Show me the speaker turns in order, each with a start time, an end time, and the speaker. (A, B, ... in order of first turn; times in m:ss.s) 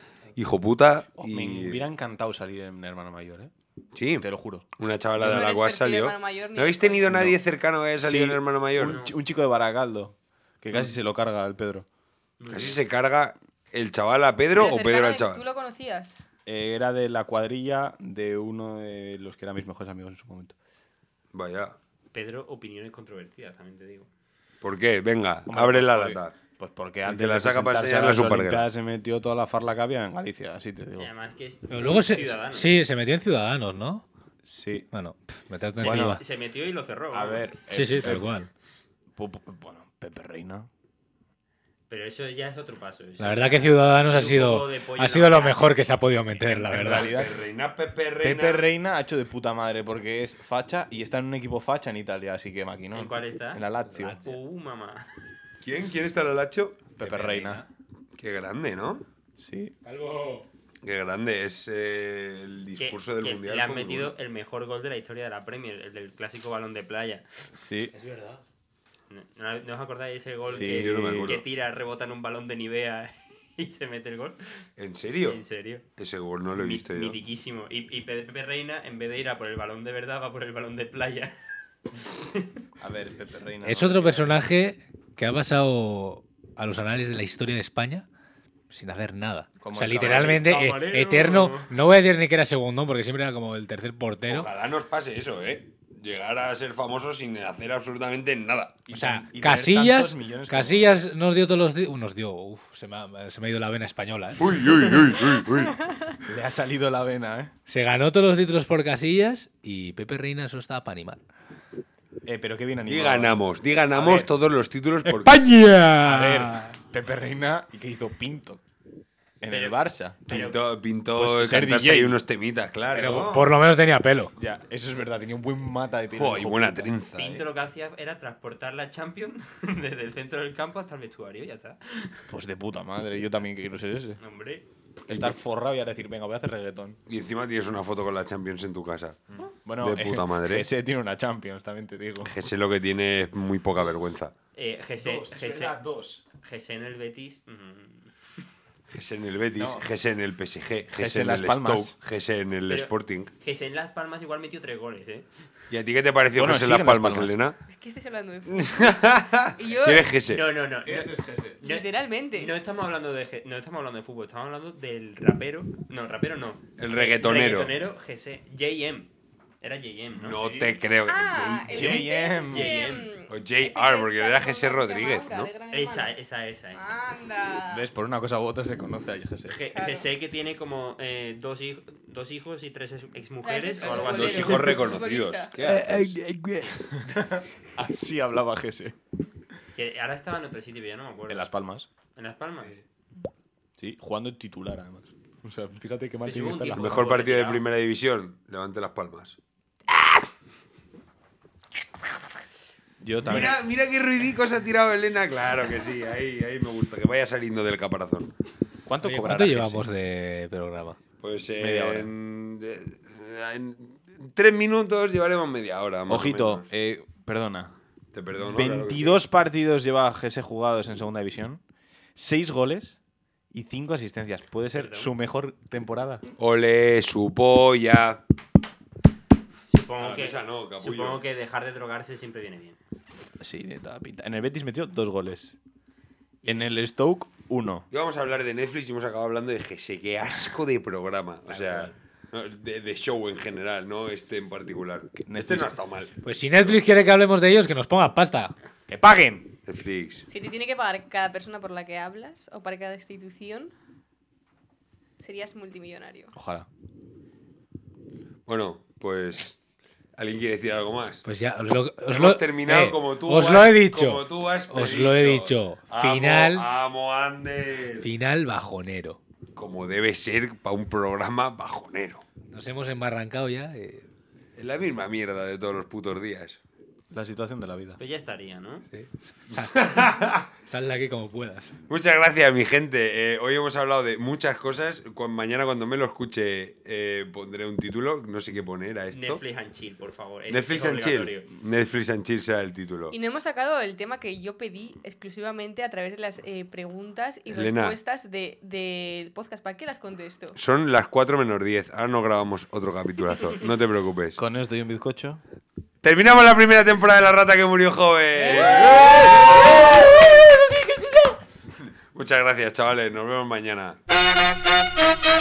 0:00.3-0:01.8 A
0:01.2-0:03.5 B
0:03.9-0:09.0 A
0:04.2-0:04.6 B
0:05.2-0:07.2 C
0:07.0-0:07.4 B
0:08.0-0:11.8 B
0:08.8-0:09.1 D
0:12.4-0:12.8 D
0:12.5-0:15.4 A
0:14.5-0:16.2 C
0:16.4-0:20.5 B
0:21.3-0:21.8 A
0:22.1-0:24.1 D
0:24.6-0:26.3 A
0:25.5-0:31.1 B
0:27.0-0:28.7 A
0:31.0-0:32.8 D
0:31.7-0:34.0 E
0:34.4-0:34.9 B
0:34.9-0:36.2 E
0:35.7-0:37.5 D
0:35.8-0:36.2 B
0:37.1-0:38.3 B
0:37.7-0:38.5 E
0:39.1-0:40.7 B
0:41.9-0:45.9 D
0:43.2-0:47.1 E
0:46.4-0:47.4 B
0:46.7-0:48.7 A
0:48.2-0:54.2 B
0:52.9-0:53.6 D
0:53.9-0:54.4 E
0:54.2-0:55.2 D
0:55.6-0:56.9 A
0:57.0-0:57.6 B
0:57.0-0:57.7 E
0:58.2-0:59.0 A
0:59.4-0:59.7 B
0:59.8-1:00.5 E
1:00.8-1:04.1 A
1:02.8-1:07.5 D
1:07.6-1:07.9 B
1:07.9-1:08.4 E
1:09.1-1:14.6 D
1:10.5-1:11.4 B
1:10.5-1:11.5 A
1:14.8-1:15.4 A
1:15.2-1:15.8 D
1:16.0-1:17.2 A
1:16.5-1:21.3 D
1:22.1-1:22.5 D
1:22.8-1:24.4 B
1:23.6-1:28.0 E
1:28.7-1:34.5 E
1:29.6-1:30.9 B
1:30.0-1:31.7 D
1:34.2-1:38.9 A
1:38.9-1:41.0 B
1:38.9-1:44.4 E
1:44.4-1:45.9 A
1:46.2-1:47.5 B
1:47.7-1:51.2 E
1:52.2-1:53.4 B
1:52.9-1:55.5 A
1:53.9-1:54.3 B
1:55.0-1:56.6 E
1:56.0-1:58.6 B
1:59.4-2:00.5 B
1:59.5-2:00.6 D
2:00.3-2:03.5 A
2:01.1-2:02.2 B
2:02.9-2:04.3 E
2:04.4-2:07.4 B
2:06.1-2:07.4 A
2:07.1-2:12.2 D
2:12.3-2:14.2 B
2:14.2-2:14.6 D
2:15.1-2:17.0 B
2:15.1-2:15.4 A
2:17.1-2:19.2 A
2:19.6-2:22.5 B
2:19.8-2:20.7 A
2:22.2-2:24.3 A
2:24.5-2:25.8 D
2:25.0-2:26.2 B
2:26.4-2:28.1 D
2:28.9-2:33.3 A
2:29.6-2:29.9 B
2:31.0-2:31.9 B
2:32.7-2:35.3 D
2:35.7-2:37.6 A
2:36.3-2:37.4 B
2:37.7-2:40.1 C
2:38.5-2:40.4 A
2:40.3-2:50.4 D
2:40.8-2:41.6 B
2:41.6-2:42.5 C
2:46.8-2:47.7 A
2:50.2-2:52.0 A
2:50.3-2:50.8 B
2:51.0-2:56.2 C
2:51.7-2:52.9 B
2:52.5-2:53.1 D
2:53.3-2:55.5 A
2:55.7-2:57.0 D
2:56.7-2:57.8 C
2:57.7-2:59.6 B
2:59.5-3:04.9 D
2:59.7-3:00.1 C
3:03.4-3:05.5 C
3:03.8-3:06.2 A
3:05.6-3:09.0 B
3:09.7-3:11.5 D
3:11.3-3:11.9 B
3:12.2-3:12.8 D
3:13.8-3:17.1 B
3:16.2-3:17.7 D
3:16.8-3:19.4 A
3:23.0-3:23.6 B
3:23.2-3:28.3 A
3:28.8-3:29.9 B
3:29.0-3:31.0 E
3:31.2-3:36.6 A
3:31.6-3:32.1 B
3:36.1-3:37.8 B
3:38.1-3:39.2 A
3:38.5-3:41.6 B
3:42.2-3:43.0 B
3:43.5-3:46.2 B
3:44.7-3:45.1 D
3:46.4-3:48.2 A
3:49.7-3:52.8 D
3:50.0-3:51.2 A
3:53.4-3:55.6 B
3:56.4-3:56.7 D
3:56.4-3:57.9 B
3:57.9-4:06.7 A
4:01.5-4:01.9 D
4:05.2-4:05.8 B
4:06.2-4:08.5 E
4:08.9-4:09.5 B
4:09.6-4:10.2 A
4:10.3-4:13.7 C
4:15.2-4:16.3 C
4:16.3-4:16.7 B
4:18.5-4:19.6 A
4:20.2-4:21.2 A
4:21.2-4:26.7 E
4:22.1-4:28.1 A
4:28.0-4:29.2 E
4:29.6-4:32.2 A
4:32.5-4:34.1 E
4:34.6-4:36.6 A
4:37.1-4:38.0 B
4:38.0-4:38.9 D
4:38.9-4:40.0 E
4:39.8-4:40.4 A
4:40.6-4:41.8 E
4:41.9-4:49.4 A
4:49.1-4:51.5 D
4:50.5-4:53.1 A
4:53.1-5:00.6 C
4:57.5-4:58.0 A
5:00.6-5:04.4 A
5:04.4-5:05.4 B
5:06.0-5:10.1 A
5:11.8-5:14.0 A